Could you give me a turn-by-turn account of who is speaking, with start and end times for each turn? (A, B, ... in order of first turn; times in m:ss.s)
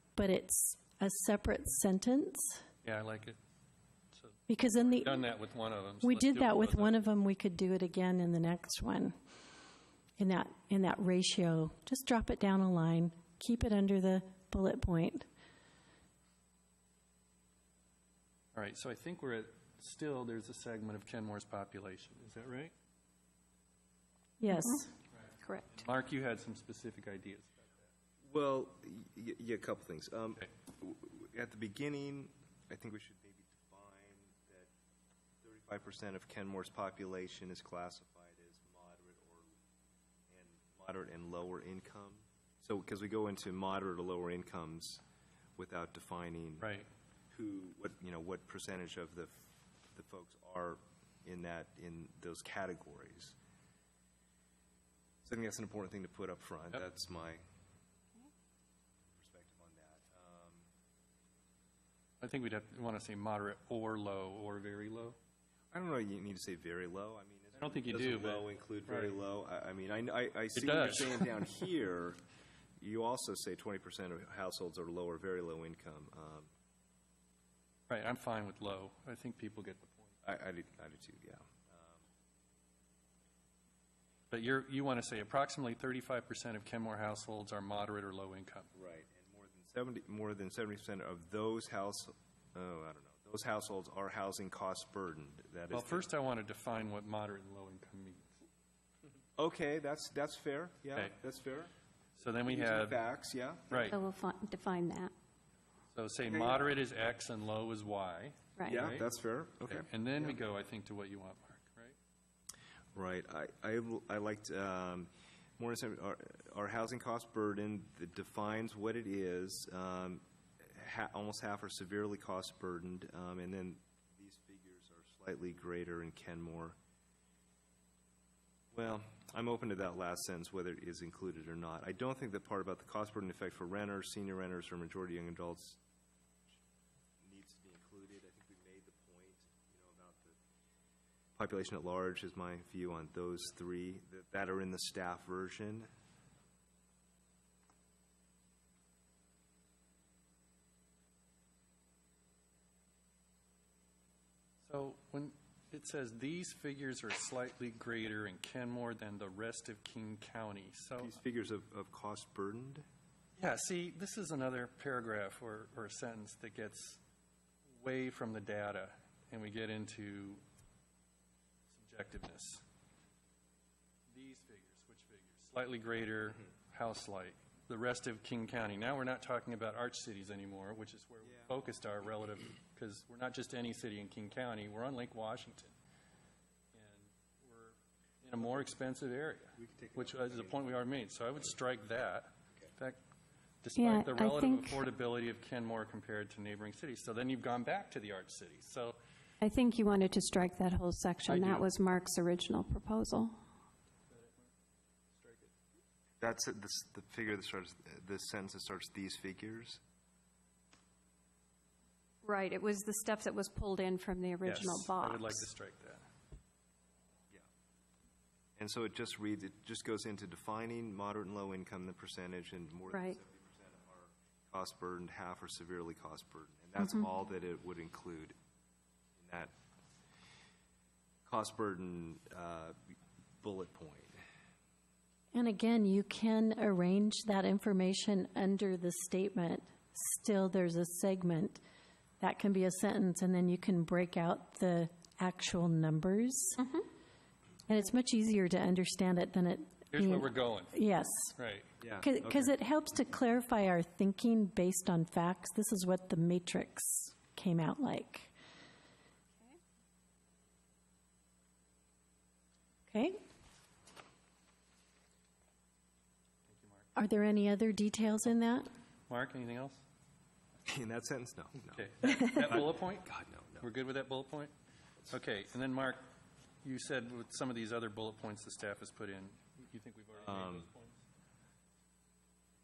0:00.2-0:02.6 A
0:02.8-0:03.4 B
0:04.1-0:07.0 B
0:04.5-0:05.2 A
0:06.0-0:09.1 A
0:10.2-0:15.3 A
0:18.5-0:22.7 B
0:24.4-0:24.9 A
0:25.4-0:25.8 C
0:25.7-0:27.9 B
0:28.2-0:34.7 D
0:35.4-0:39.5 D
0:40.3-0:45.0 D
0:45.6-0:46.7 D
0:46.6-0:46.9 B
0:47.3-0:53.4 D
0:55.2-0:57.4 D
0:59.2-1:00.7 D
1:02.2-1:05.2 B
1:05.7-1:12.2 D
1:07.5-1:09.1 B
1:10.5-1:11.4 B
1:12.8-1:16.5 D
1:17.9-1:20.2 B
1:20.2-1:22.0 D
1:24.3-1:28.7 B
1:28.7-1:36.1 D
1:35.7-1:38.4 B
1:39.4-1:41.7 D
1:42.2-1:43.0 B
1:42.5-1:44.0 D
1:43.7-1:44.0 B
1:43.9-1:45.1 C
1:45.9-1:49.1 B
1:46.2-1:46.7 D
1:48.7-1:50.4 D
1:49.7-1:52.0 B
1:53.0-2:06.8 D
2:08.7-2:15.8 D
2:17.2-2:20.4 D
2:21.4-2:25.9 D
2:34.6-2:41.1 B
2:41.0-2:42.9 D
2:43.4-2:47.0 B
2:47.7-2:50.4 B
2:51.7-2:52.6 B
2:54.1-3:05.8 B
3:01.2-3:01.5 D
3:06.7-3:13.0 B
3:09.6-3:10.8 D
3:13.6-3:19.0 B
3:13.8-3:14.8 C
3:19.4-3:23.4 C
3:21.3-3:21.7 B
3:24.1-3:24.5 B
3:25.1-3:25.5 B
3:26.2-3:29.8 D
3:32.2-3:35.4 C
3:34.4-3:36.1 B
3:38.6-3:48.4 D
3:42.9-3:43.2 C
3:46.8-3:47.0 C
3:49.2-3:49.5 D
3:51.3-3:52.8 D
3:53.4-3:54.2 D
3:55.3-4:01.6 A
4:02.2-4:06.6 A
4:06.6-4:06.9 C
4:07.7-4:11.4 A
4:09.9-4:10.8 B
4:11.4-4:11.7 B
4:11.8-4:12.6 D
4:12.0-4:18.3 A
4:19.3-4:19.6 C
4:22.9-4:23.2 A
4:26.5-4:26.9 B
4:27.0-4:28.7 A
4:29.1-4:29.8 B
4:30.7-4:33.7 D
4:31.7-4:34.5 B
4:35.1-4:36.0 B
4:36.6-4:41.0 B
4:40.3-4:40.7 D